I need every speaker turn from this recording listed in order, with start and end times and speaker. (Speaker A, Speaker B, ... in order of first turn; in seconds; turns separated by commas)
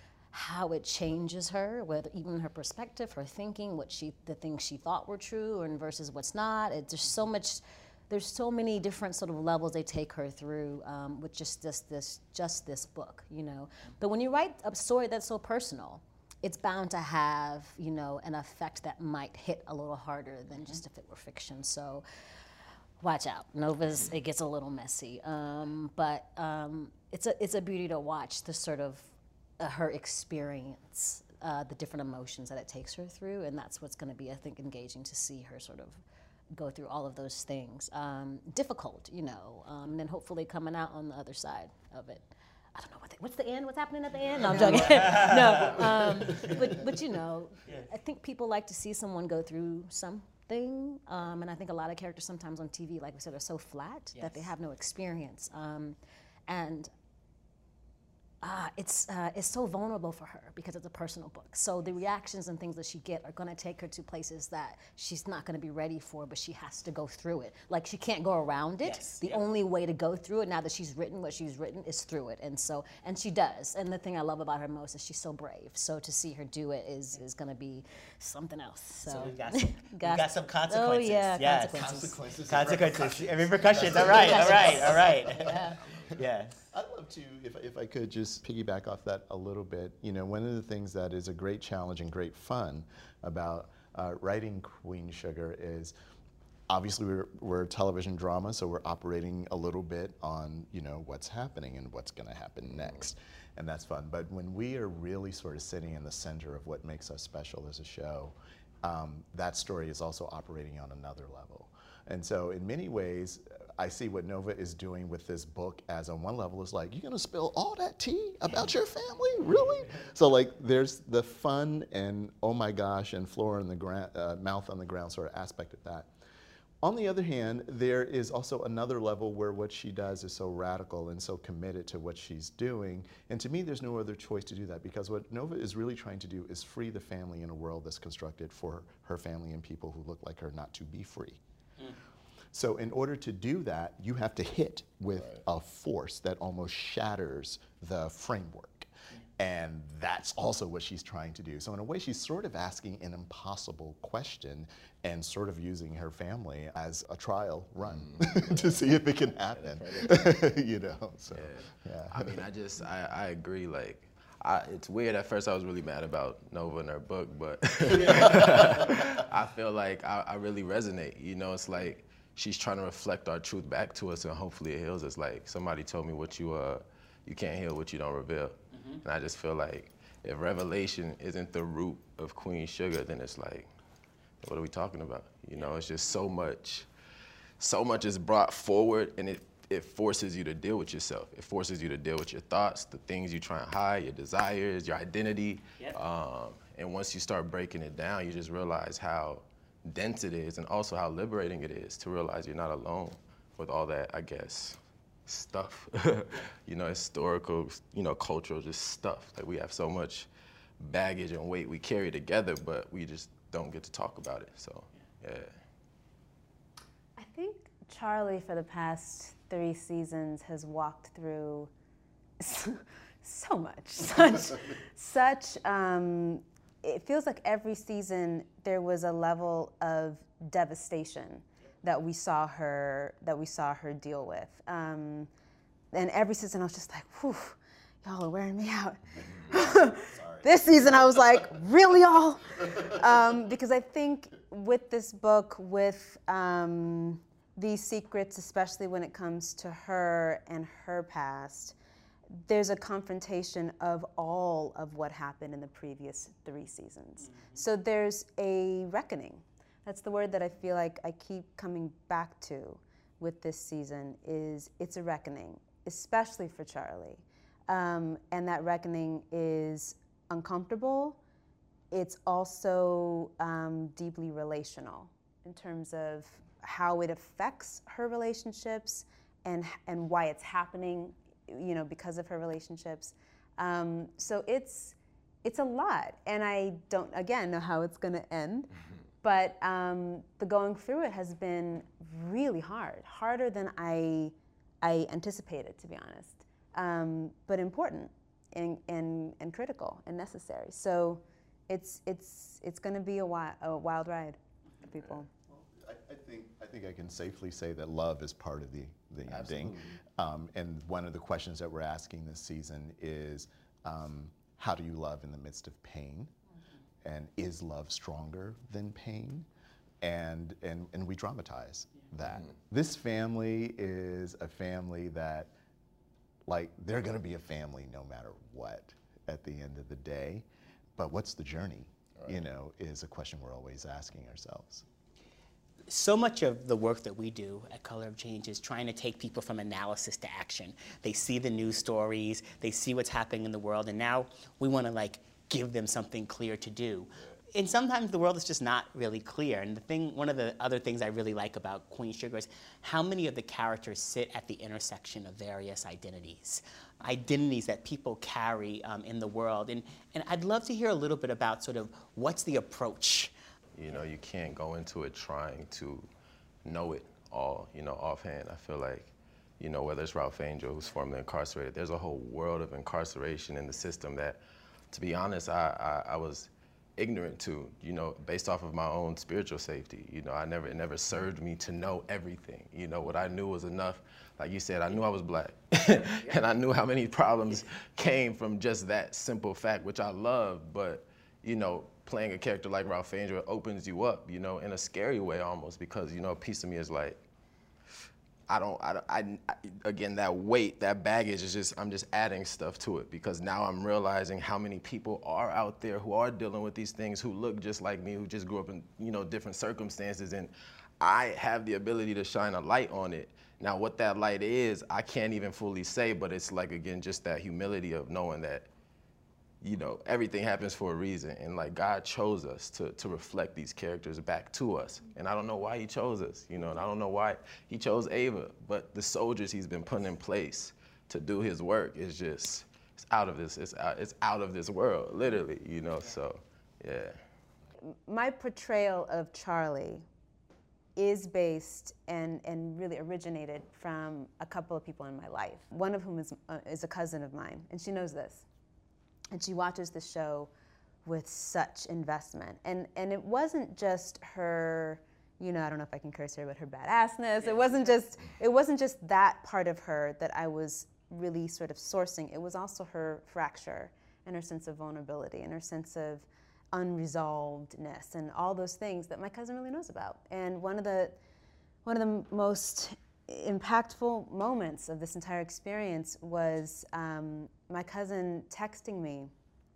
Speaker A: 0.3-22.0, Speaker A: 23.0-36.0, Speaker A: 36.5-56.0, Speaker B: 44.5-45.7, Speaker A: 56.5-56.9, Speaker A: 58.4-82.1, Speaker B: 68.8-69.4, Speaker B: 79.1-86.6, Speaker C: 81.7-86.2, Speaker A: 85.5-85.8, Speaker C: 86.7-96.0, Speaker C: 96.7-126.1, Speaker C: 126.8-141.4, Speaker C: 142.5-162.4, Speaker D: 158.0-158.9, Speaker D: 159.5-160.5, Speaker D: 161.3-183.7, Speaker B: 178.7-179.0, Speaker D: 184.4-186.9, Speaker D: 187.6-210.3, Speaker D: 210.8-215.5, Speaker E: 217.2-221.7, Speaker E: 222.4-235.3, Speaker E: 235.9-251.8, Speaker C: 240.1-240.4, Speaker E: 252.3-271.2, Speaker B: 257.3-257.6, Speaker E: 271.9-288.7, Speaker E: 289.2-305.3, Speaker C: 305.5-316.3, Speaker D: 309.3-310.0, Speaker C: 317.0-319.5, Speaker C: 320.0-325.5, Speaker C: 326.5-330.5, Speaker C: 331.0-334.9, Speaker B: 335.9-363.3, Speaker D: 363.8-366.1, Speaker D: 366.6-374.4, Speaker D: 374.9-397.2, Speaker D: 398.5-418.7, Speaker D: 419.6-437.2, Speaker E: 438.1-440.1, Speaker E: 441.0-448.4, Speaker E: 449.3-450.5, Speaker E: 451.1-471.2, Speaker E: 471.9-479.3